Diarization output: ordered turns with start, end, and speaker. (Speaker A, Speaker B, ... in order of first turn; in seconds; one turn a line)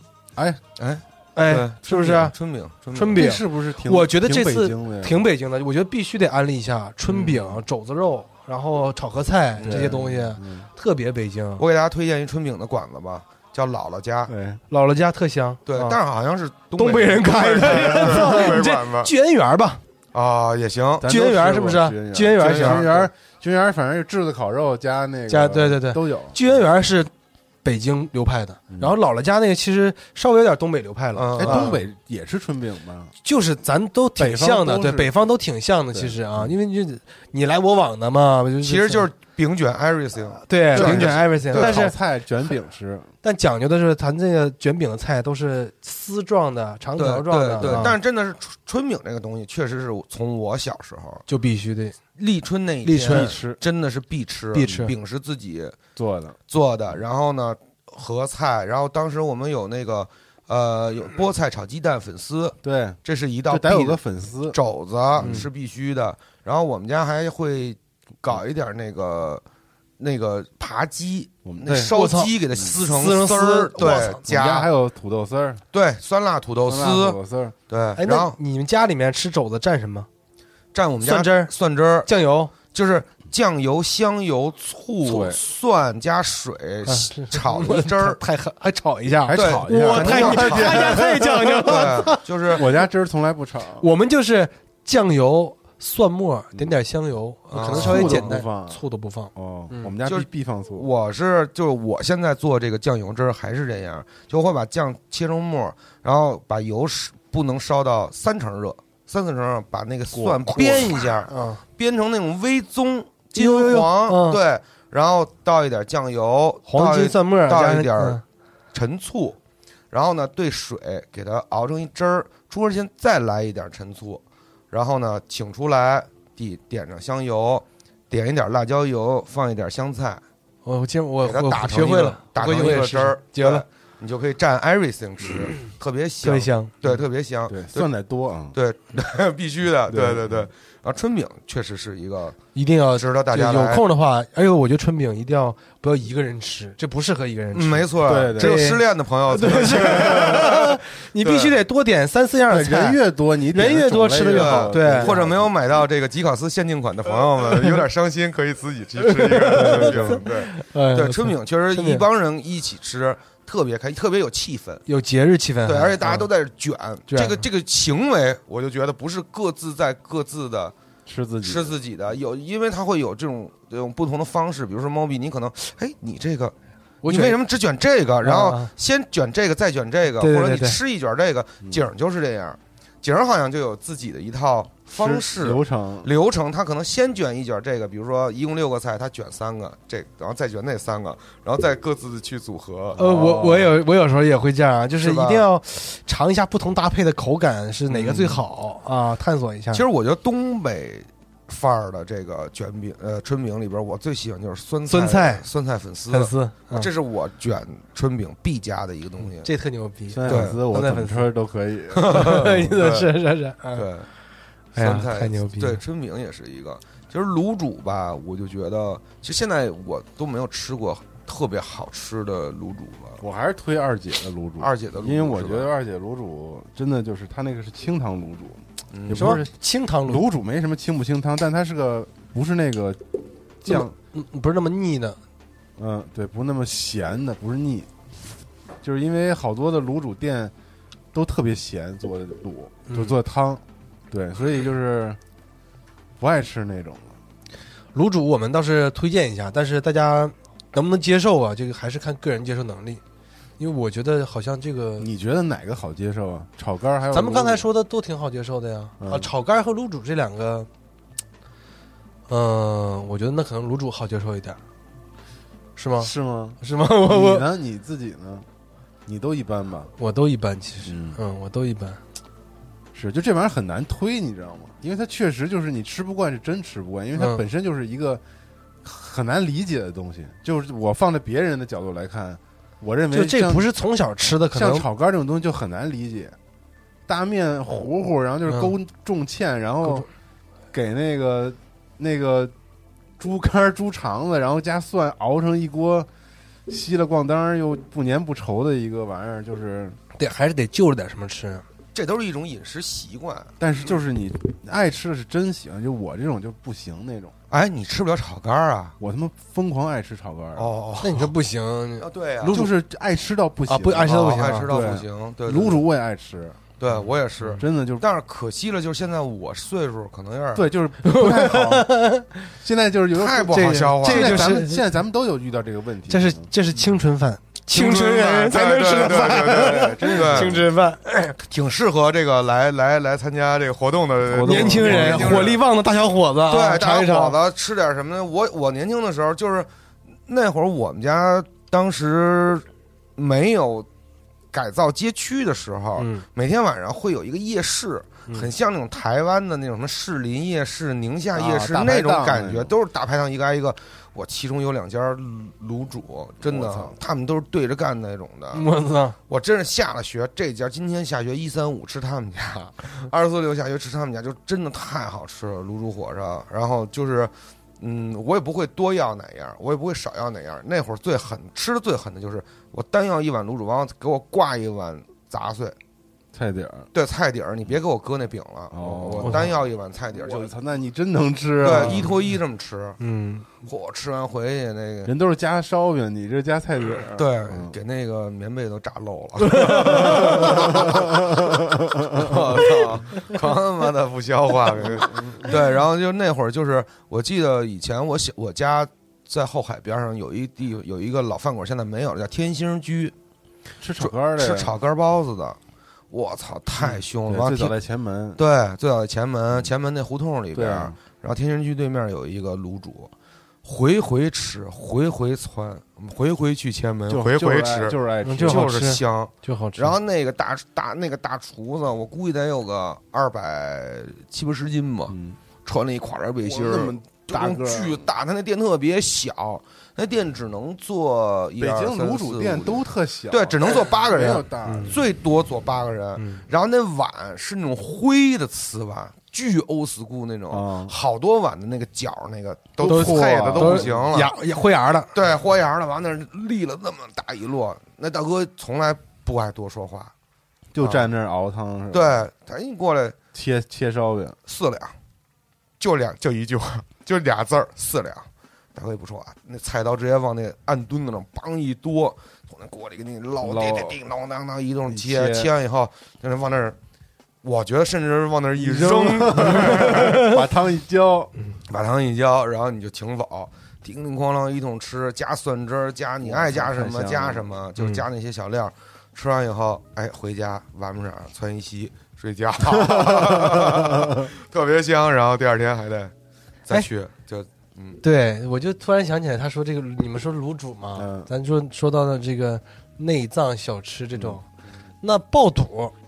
Speaker A: 0.3-0.6
Speaker B: 0.8-3.3
Speaker C: 1.4-2.3
Speaker C: 2.9-11.6
Speaker A: 3.1-5.2
Speaker B: 7.1-7.6
Speaker B: 9.6-10.1
Speaker A: 9.6-10.7
Speaker B: 11.6-14.3
Speaker A: 14.3-14.6
Speaker C: 14.7-16.0
Speaker B: 15.7-19.1
Speaker C: 16.8-19.8
Speaker A: 17.7-18.3
Speaker B: 20.1-21.1
Speaker A: 21.0-26.6
Speaker C: 21.0-23.1
Speaker B: 22.4-22.9
Speaker C: 25.3-27.1
Speaker C: 27.6-31.8
Speaker A: 28.7-28.9
Speaker B: 31.1-31.8
Speaker A: 31.4-33.1
Speaker C: 33.2-39.0
Speaker A: 34.2-35.1
Speaker A: 35.9-36.5
Speaker B: 38.6-41.8
Speaker C: 40.4-41.9
Speaker A: 40.7-43.1
Speaker C: 43.2-48.0
Speaker B: 47.0-51.2
Speaker A: 47.6-47.9
Speaker C: 51.3-52.0
Speaker B: 52.2-55.8
Speaker C: 52.8-53.3
Speaker A: 53.0-53.6
Speaker C: 54.5-54.9
Speaker A: 56.0-56.4
Speaker B: 56.5-69.4
Speaker A: 62.6-64.6
Speaker A: 65.2-65.5
Speaker B: 70.0-74.7
Speaker A: 71.4-71.9
Speaker C: 71.9-74.2
Speaker A: 73.8-75.6
Speaker B: 75.7-78.3
Speaker A: 76.6-77.5
Speaker C: 78.0-80.1
Speaker B: 80.7-82.1
Speaker C: 81.0-81.5
Speaker C: 82.0-82.5
Speaker B: 82.7-88.2
Speaker A: 85.0-85.4
Speaker C: 86.8-92.2
Speaker A: 89.2-93.8
Speaker B: 89.3-91.0
Speaker B: 91.6-92.7
Speaker C: 93.8-99.9
Speaker B: 97.5-98.3
Speaker A: 97.7-98.8
Speaker A: 99.3-100.9
Speaker B: 100.0-118.2
Speaker A: 110.1-111.0
Speaker C: 110.5-111.6
Speaker C: 113.3-114.4
Speaker C: 116.7-118.2
Speaker B: 118.7-119.4
Speaker B: 119.9-130.2
Speaker C: 130.6-133.6
Speaker B: 131.2-137.9
Speaker C: 136.2-136.7
Speaker A: 137.5-138.6
Speaker B: 138.5-142.4
Speaker A: 139.9-140.5
Speaker C: 142.5-153.0
Speaker B: 142.9-143.8
Speaker B: 147.5-151.6
Speaker A: 148.0-148.6
Speaker A: 152.5-155.8
Speaker C: 153.5-155.2
Speaker B: 154.3-164.8
Speaker C: 159.0-162.0
Speaker A: 159.5-160.2
Speaker C: 164.8-166.3
Speaker B: 165.6-170.7
Speaker C: 167.1-167.4
Speaker A: 171.1-171.7
Speaker B: 171.4-176.5
Speaker C: 177.0-177.4
Speaker B: 177.0-193.0
Speaker C: 178.2-178.7
Speaker C: 180.2-180.8
Speaker A: 184.9-186.1
Speaker A: 192.9-193.7
Speaker C: 193.0-199.8
Speaker B: 195.0-195.4
Speaker B: 197.9-198.4
Speaker B: 199.7-209.5
Speaker C: 204.9-205.4
Speaker C: 206.1-206.9
Speaker C: 209.4-211.3
Speaker A: 210.1-212.7
Speaker B: 210.2-210.6
Speaker C: 211.9-213.9
Speaker B: 212.1-213.1
Speaker B: 213.7-214.1
Speaker C: 214.8-215.8
Speaker B: 214.8-223.2
Speaker A: 223.2-229.5
Speaker B: 224.6-225.7
Speaker B: 228.9-229.4
Speaker C: 229.1-230.2
Speaker A: 230.0-233.0
Speaker A: 233.6-233.9
Speaker C: 233.7-235.2
Speaker A: 235.8-237.9
Speaker A: 238.8-240.5
Speaker A: 241.1-245.2
Speaker C: 242.9-243.2
Speaker A: 246.2-247.2
Speaker C: 247.9-253.0
Speaker C: 253.6-255.1
Speaker A: 255.0-257.6
Speaker C: 257.1-260.7
Speaker A: 259.0-259.3
Speaker C: 262.3-264.6
Speaker C: 265.8-267.5
Speaker A: 266.0-268.5
Speaker A: 269.1-269.9
Speaker C: 270.0-272.0
Speaker A: 270.8-271.2
Speaker A: 272.9-278.2
Speaker C: 277.1-277.4
Speaker A: 278.8-283.7
Speaker C: 283.1-284.9
Speaker A: 284.5-286.4
Speaker A: 287.1-290.1
Speaker C: 288.5-288.7
Speaker A: 290.7-292.5
Speaker A: 293.2-296.1
Speaker A: 296.7-300.0
Speaker C: 300.2-301.6
Speaker B: 301.9-303.5
Speaker A: 303.6-307.3
Speaker B: 307.5-308.9
Speaker A: 309.0-310.7
Speaker B: 310.5-311.3
Speaker C: 311.0-312.7
Speaker B: 312.0-312.6
Speaker A: 312.5-316.7
Speaker C: 313.7-314.7
Speaker B: 314.0-315.8
Speaker B: 316.8-320.7
Speaker A: 317.6-318.1
Speaker A: 320.5-326.5
Speaker C: 321.0-322.5
Speaker B: 323.1-324.5
Speaker C: 323.5-324.8
Speaker C: 326.1-331.4
Speaker B: 327.7-330.6
Speaker A: 328.9-330.7
Speaker B: 331.4-335.6
Speaker A: 334.2-335.6
Speaker C: 334.4-337.4
Speaker B: 336.5-339.7
Speaker B: 340.3-342.6
Speaker B: 343.2-343.9
Speaker B: 344.5-358.6
Speaker C: 346.0-346.2
Speaker A: 351.3-352.7
Speaker A: 356.4-356.9
Speaker C: 358.5-359.1
Speaker B: 359.3-375.8
Speaker A: 376.3-376.9
Speaker B: 376.9-380.5
Speaker A: 378.7-379.6
Speaker A: 380.1-382.2
Speaker B: 381.6-383.0
Speaker C: 383.0-383.5
Speaker B: 383.6-385.1
Speaker A: 385.0-387.8
Speaker B: 387.1-403.1
Speaker C: 389.4-390.8
Speaker A: 390.0-392.6
Speaker A: 394.9-395.5
Speaker A: 403.8-404.7
Speaker B: 404.0-405.6
Speaker B: 406.1-407.7
Speaker A: 406.8-408.4
Speaker B: 408.4-413.1
Speaker A: 410.5-410.9
Speaker B: 413.6-444.3
Speaker A: 417.1-418.7
Speaker C: 418.2-419.9
Speaker A: 425.1-425.4
Speaker A: 426.4-428.1
Speaker A: 431.6-435.0
Speaker C: 434.6-434.9
Speaker C: 436.2-436.4
Speaker A: 440.5-440.9
Speaker A: 442.8-444.2
Speaker C: 442.9-445.1
Speaker B: 445.1-450.1
Speaker A: 450.7-452.3
Speaker B: 450.8-451.1
Speaker B: 451.9-453.2
Speaker A: 453.3-454.4
Speaker B: 454.5-454.9
Speaker B: 455.8-466.8
Speaker A: 463.4-464.0
Speaker A: 464.9-465.5
Speaker B: 467.4-470.3
Speaker A: 468.6-471.3
Speaker C: 469.9-470.3
Speaker B: 471.7-486.1
Speaker A: 476.2-477.4
Speaker C: 477.8-478.0
Speaker A: 482.8-484.3
Speaker B: 486.7-488.0
Speaker C: 488.0-494.4
Speaker A: 490.9-491.3
Speaker A: 494.1-494.4
Speaker C: 495.0-495.9